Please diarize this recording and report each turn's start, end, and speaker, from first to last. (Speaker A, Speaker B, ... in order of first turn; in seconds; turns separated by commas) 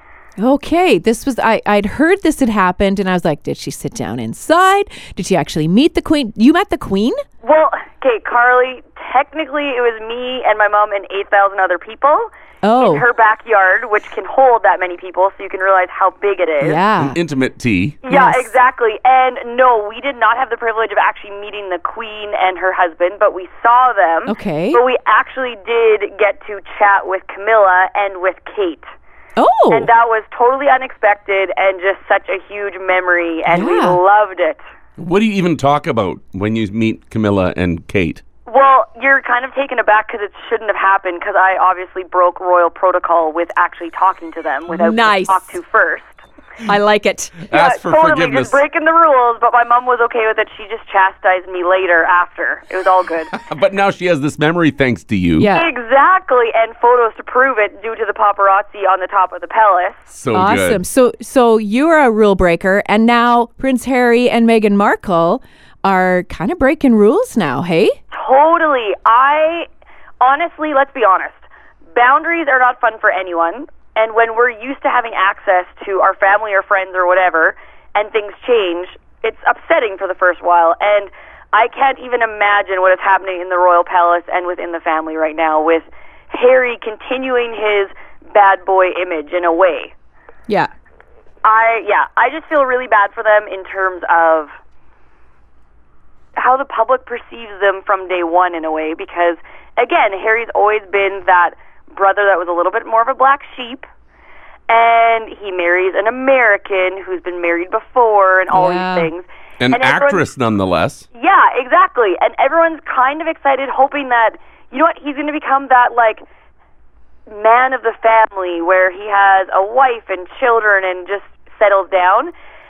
Speaker A: 0.4-7.2, Speaker B: 7.4-16.8, Speaker A: 12.6-13.0, Speaker A: 16.6-17.2, Speaker C: 17.0-18.0, Speaker B: 18.0-28.9, Speaker A: 18.1-18.5, Speaker A: 24.3-24.8, Speaker A: 29.4-29.9, Speaker B: 29.7-34.6, Speaker A: 33.5-34.0, Speaker C: 35.0-38.2, Speaker B: 38.5-46.2, Speaker A: 44.7-45.4, Speaker A: 46.6-47.4, Speaker C: 47.5-48.6, Speaker B: 47.5-53.3, Speaker C: 53.3-55.5, Speaker A: 55.4-55.7, Speaker B: 55.5-60.1, Speaker C: 60.1-60.8, Speaker A: 60.3-68.0, Speaker B: 68.1-69.7, Speaker B: 70.2-89.9, Speaker B: 91.4-94.5, Speaker B: 96.4-103.9, Speaker B: 104.7-110.2, Speaker A: 108.5-109.1, Speaker C: 109.6-111.0, Speaker B: 111.1-116.2, Speaker B: 117.3-122.3